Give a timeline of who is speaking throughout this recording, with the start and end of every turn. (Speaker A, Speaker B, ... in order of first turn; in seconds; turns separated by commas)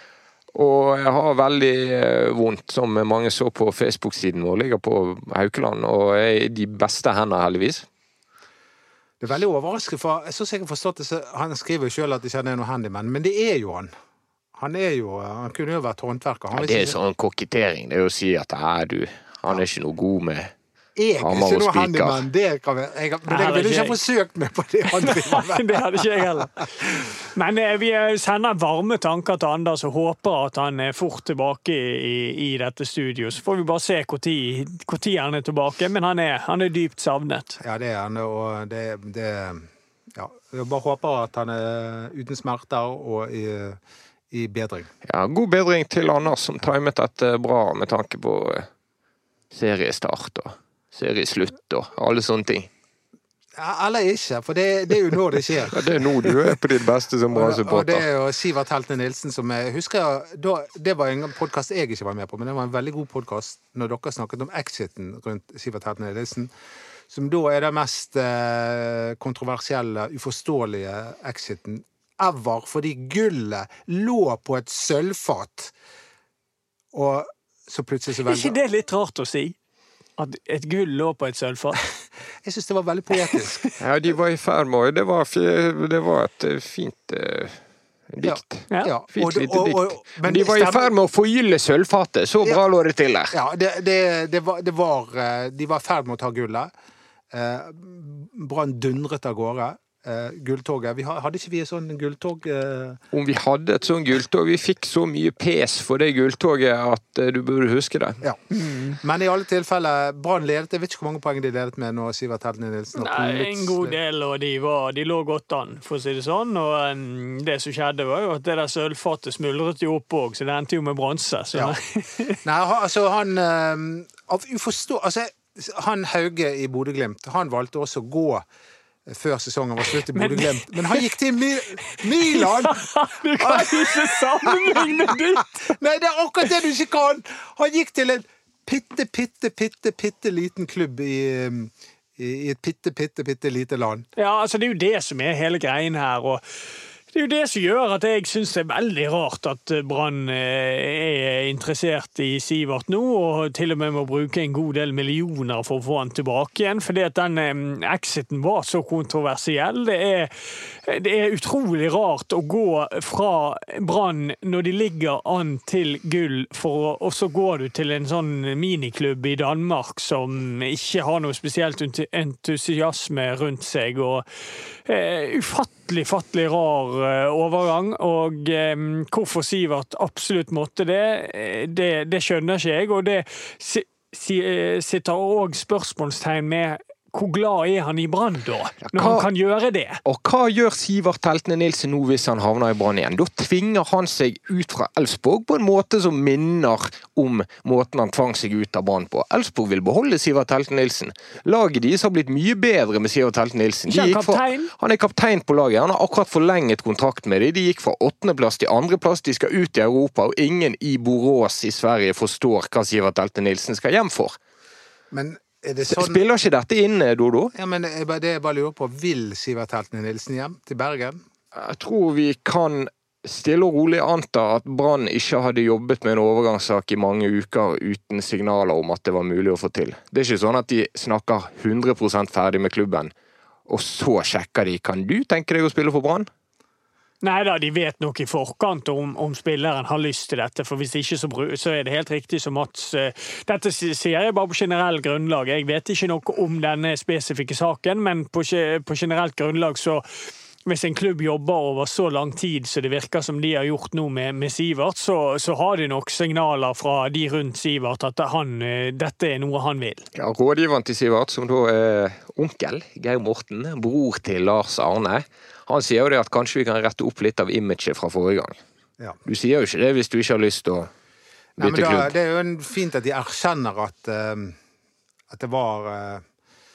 Speaker A: 0.5-7.9, Speaker B: 9.2-13.9, Speaker B: 14.6-17.0, Speaker A: 16.5-20.5, Speaker B: 21.0-26.3, Speaker A: 21.2-22.2, Speaker C: 23.3-24.0, Speaker C: 24.9-37.6, Speaker B: 37.6-43.8, Speaker B: 44.3-44.9, Speaker A: 45.0-48.7, Speaker A: 49.5-52.7, Speaker B: 53.6-56.6, Speaker A: 55.7-58.1, Speaker B: 57.3-66.5, Speaker B: 67.1-75.7, Speaker B: 76.9-78.6, Speaker C: 78.3-79.6, Speaker C: 80.2-81.8, Speaker B: 82.4-83.6, Speaker C: 83.3-83.8, Speaker A: 83.8-93.3, Speaker B: 88.2-90.9, Speaker B: 93.3-96.7, Speaker B: 97.3-103.0, Speaker A: 103.1-108.2, Speaker C: 108.5-109.0, Speaker B: 109.0-114.0, Speaker C: 113.0-122.4, Speaker B: 122.4-128.4, Speaker B: 129.1-144.1, Speaker C: 130.1-131.1, Speaker C: 131.9-135.8, Speaker C: 144.2-146.4, Speaker C: 147.1-174.2, Speaker C: 174.9-190.0, Speaker A: 188.8-189.3, Speaker A: 190.1-214.4, Speaker C: 203.9-204.7, Speaker B: 215.1-216.2, Speaker A: 215.9-217.5, Speaker B: 217.5-221.2, Speaker A: 221.5-233.1, Speaker A: 233.7-236.3, Speaker C: 237.2-250.0, Speaker C: 250.7-260.1, Speaker A: 260.1-268.6, Speaker A: 269.3-270.9, Speaker B: 271.6-274.6, Speaker A: 271.6-272.1, Speaker B: 275.3-276.2